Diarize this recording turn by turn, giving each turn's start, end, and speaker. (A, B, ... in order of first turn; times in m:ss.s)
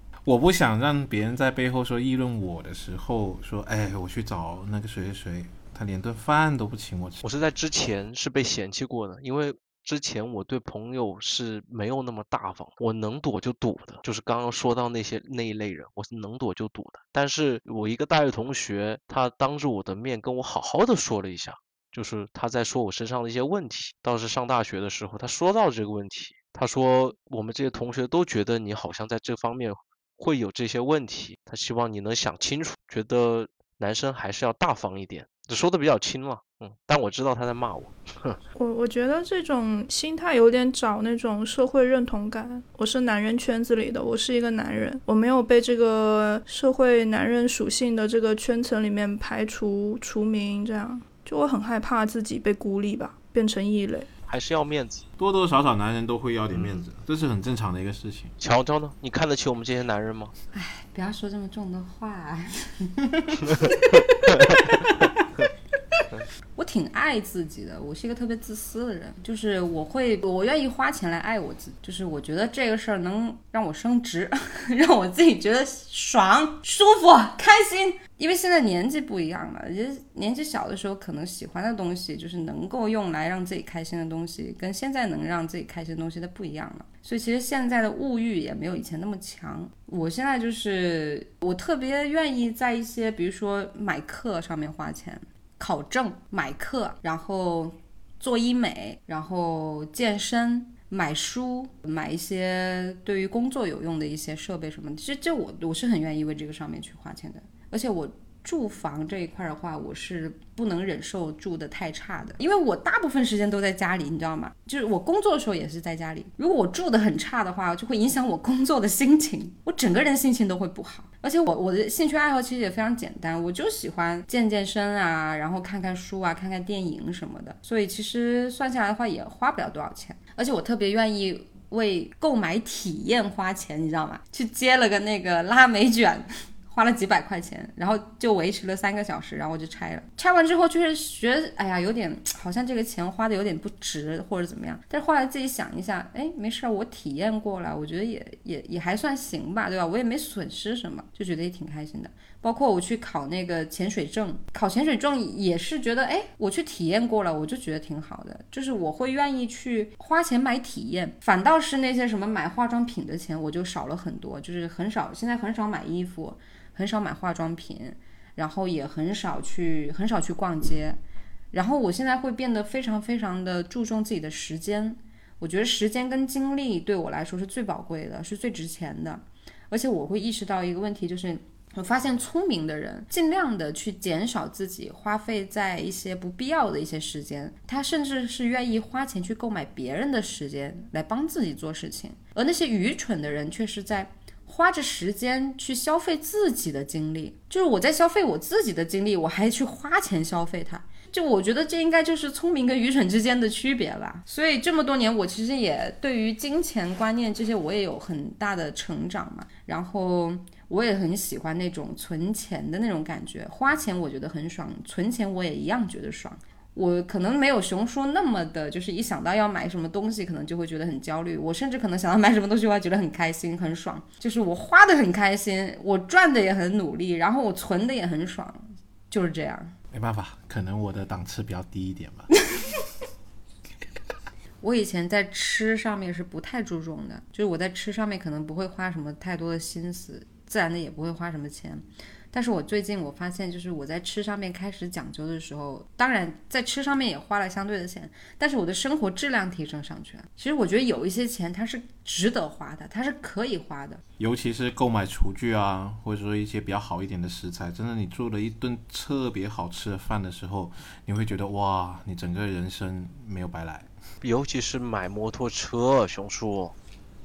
0:00.2-0:07.2 A
0:07.2-0:38.4 B
0:38.6-0:54.1 C
0:54.3-0:55.1 B
0:55.2-0:58.3 A
0:58.4-1:00.3 B
1:00.5-1:04.3 D
1:04.3-1:04.8 B
1:06.6-2:51.0 D
2:51.5-3:49.7 D
3:49.9-3:52.3 A
3:54.6-4:14.0 D
4:14.2-4:23.9 A
4:24.2-4:26.8 B